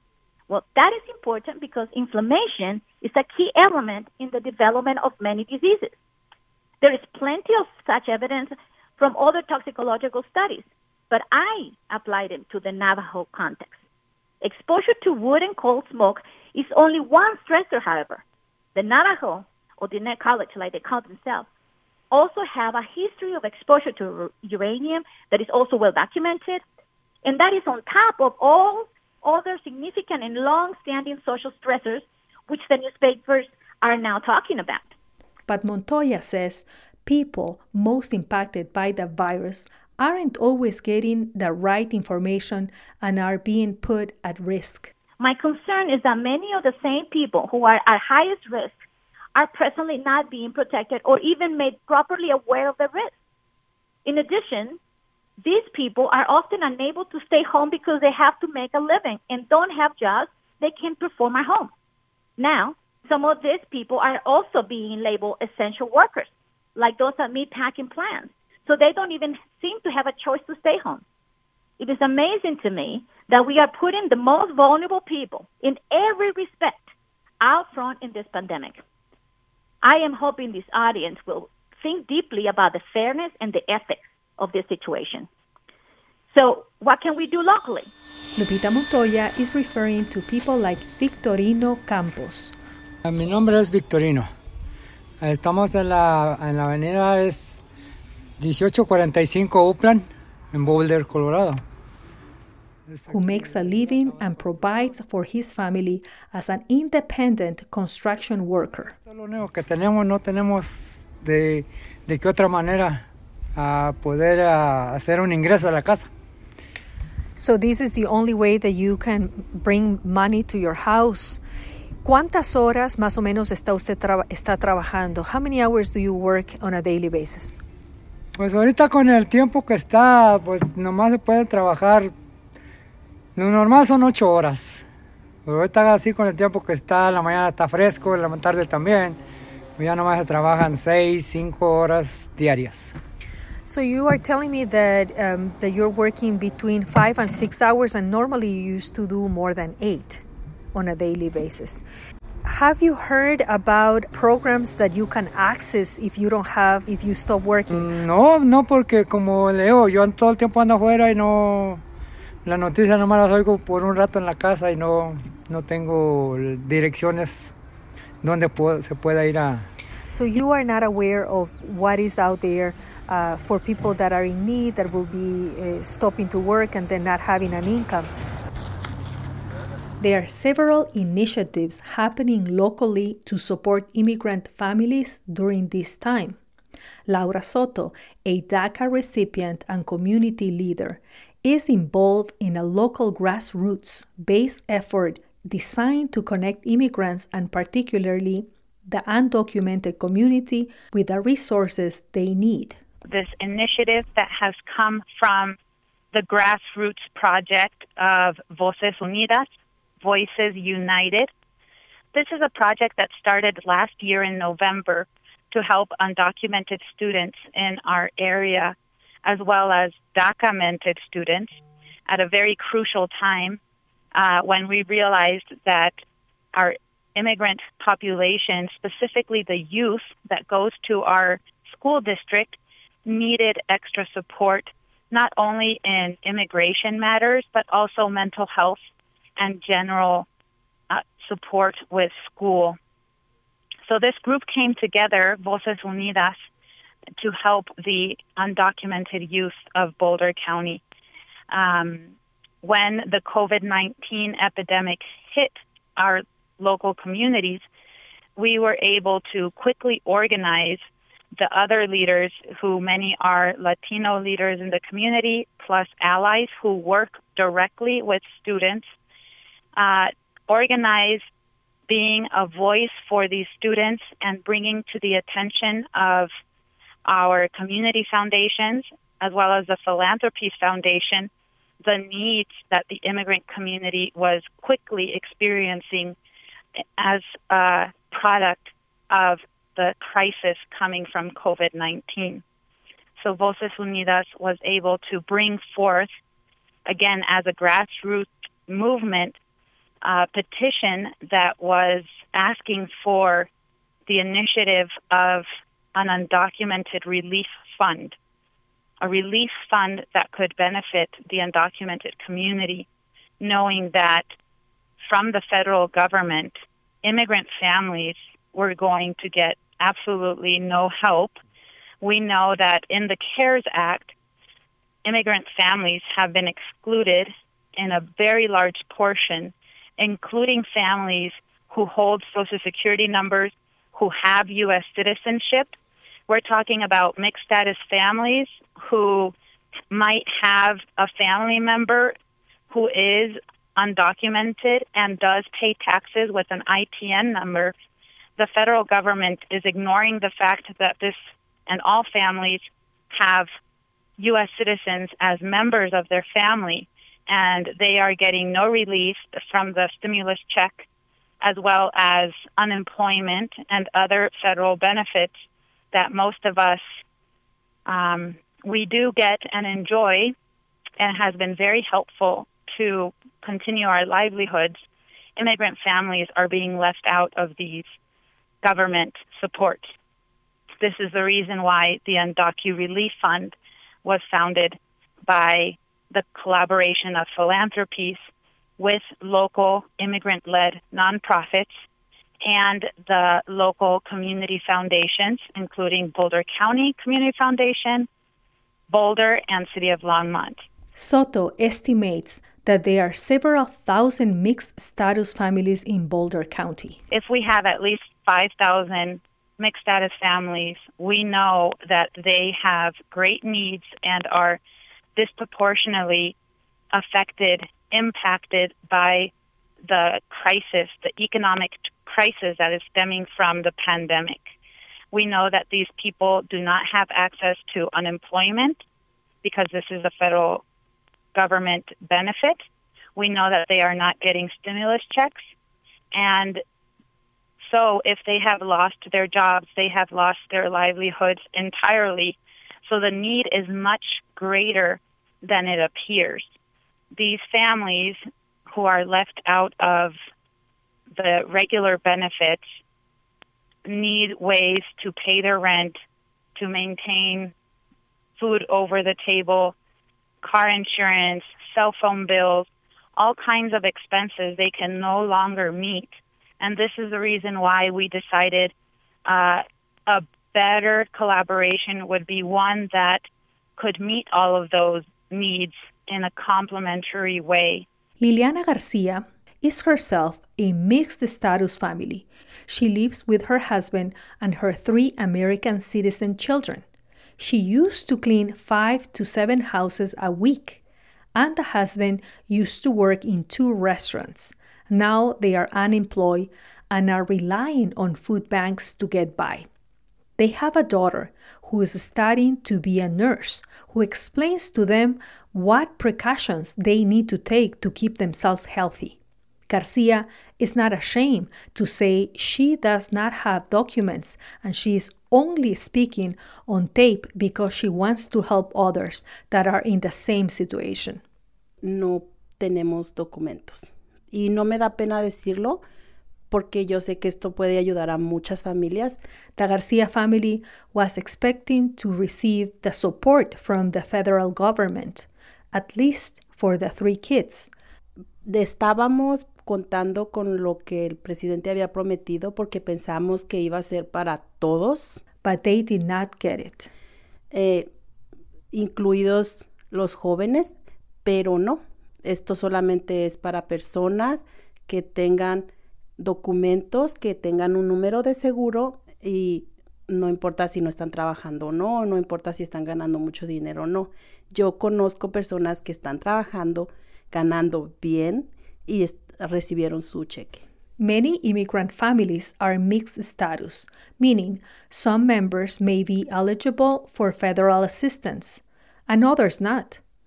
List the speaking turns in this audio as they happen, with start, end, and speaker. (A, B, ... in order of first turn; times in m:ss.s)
0:00.5-0:06.0 A
0:06.8-0:13.8 A
0:14.4-0:18.2 A
0:18.7-0:21.5 A
0:22.1-0:26.6 A
0:27.2-0:34.9 A
0:35.5-0:44.9 B
0:45.2-0:48.8 A
0:49.3-0:53.1 A
0:54.0-0:54.8 A
0:55.4-1:01.7 A
1:02.4-1:11.0 A
1:11.8-1:18.8 A
1:19.8-1:25.3 A
1:26.3-1:27.9 A
1:28.4-1:32.5 B
1:33.0-1:34.3 C
1:35.2-1:37.6 C
1:38.4-1:41.6 C
1:42.9-1:44.3 C
1:43.1-1:48.9 B
1:48.9-1:53.0 C
1:53.6-1:56.1 C
1:57.4-2:01.4 B
2:02.0-2:07.6 B
2:08.4-2:12.1 C
2:13.4-2:14.8 C
2:15.4-2:19.2 C
2:19.8-2:23.0 C
2:23.6-2:31.8 B
2:32.4-2:37.9 B
2:37.7-2:41.8 C
2:42.4-2:47.5 C
2:48.2-2:49.6 C
2:50.1-2:58.1 B
3:00.0-3:06.4 B
3:07.1-3:22.8 B
3:23.0-3:25.6 D
3:26.1-3:29.5 D
3:30.0-3:31.3 D
3:32.1-3:38.7 D
3:39.2-3:41.5 D
3:42.1-3:43.6 D
3:44.1-3:46.0 D
3:46.5-3:58.8 D
3:59.4-4:00.2 D
4:00.9-4:02.8 D
4:03.9-4:06.4 D
4:07.2-4:10.8 D
4:11.5-4:12.0 D
4:12.6-4:17.6 D
4:18.4-4:20.8 D
4:21.4-4:28.8 D
4:29.8-4:31.2 D
4:31.9-4:36.3 D
4:37.0-4:41.3 D
4:41.8-4:46.1 D
4:47.0-4:52.4 D
4:53.2-4:56.1 D
4:56.8-4:59.4 D
5:00.0-5:03.5 D
5:04.1-5:08.2 D
5:09.0-5:12.9 D
5:13.4-5:14.2 D
5:15.0-5:21.3 D
5:22.0-5:24.1 D
5:25.0-5:35.7 D
5:36.3-5:39.3 D
5:39.9-5:42.1 D
5:42.7-5:47.7 D
5:48.4-5:51.2 D
5:51.7-5:53.5 D
5:54.2-6:00.8 D
6:01.4-6:05.3 D
6:05.9-6:06.8 D
6:07.8-6:10.3 D
6:11.0-6:14.8 D
6:15.4-6:17.9 D
6:18.6-6:19.8 D
6:20.8-6:28.2 D
6:28.8-6:31.7 D
6:32.4-6:38.1 D
6:38.9-6:40.6 D
6:41.0-6:47.0 B
6:47.1-6:54.6 D
6:55.2-6:56.3 D
6:56.9-6:59.3 D
6:59.8-7:04.4 D
7:05.1-7:08.8 D
7:09.4-7:10.6 D
7:11.3-7:12.6 D
7:13.2-7:15.4 D
7:16.1-7:16.6 D
7:17.6-7:26.5 D
7:27.1-7:30.2 D
7:31.1-7:32.6 D
7:33.8-7:36.0 D
7:36.6-7:37.5 D
7:38.4-7:39.7 D
7:40.4-7:48.7 D
7:49.2-7:53.2 D
7:53.8-7:57.8 D
7:58.2-8:06.8 B
8:07.4-8:10.8 B
8:11.3-8:19.6 B
8:20.4-8:29.2 B
8:29.7-8:41.2 B
8:41.8-8:45.8 E
8:46.5-8:49.2 E
8:49.6-8:57.7 B
8:58.4-9:05.2 E
9:05.4-9:06.9 B
9:07.5-9:07.9 E
9:08.7-9:10.7 E
9:11.2-9:30.6 E
9:31.0-9:40.0 B